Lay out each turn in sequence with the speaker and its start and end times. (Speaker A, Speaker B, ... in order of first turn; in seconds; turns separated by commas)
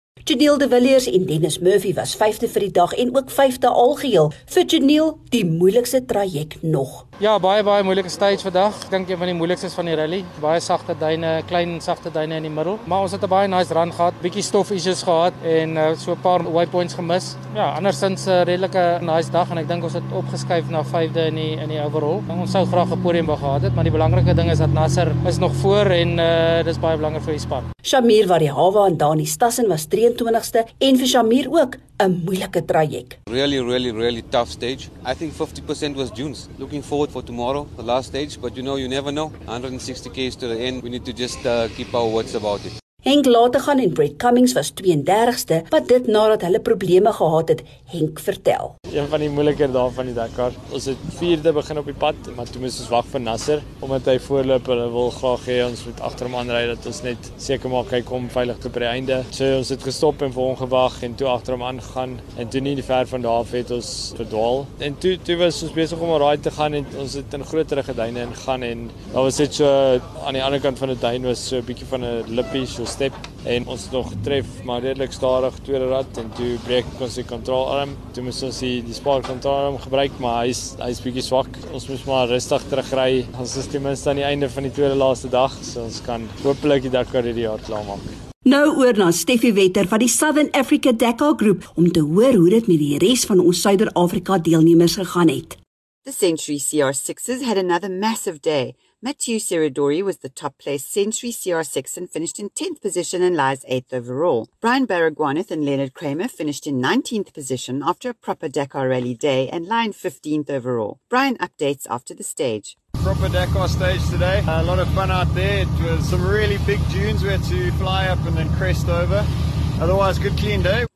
Speaker A: 0.2-7.1, Speaker B: 7.2-27.7, Speaker A: 27.9-33.2, Speaker C: 33.3-42.7, Speaker A: 43.0-48.7, Speaker D: 48.9-88.1, Speaker A: 88.5-95.6, Speaker E: 96.0-112.8, Speaker F: 113.0-120.9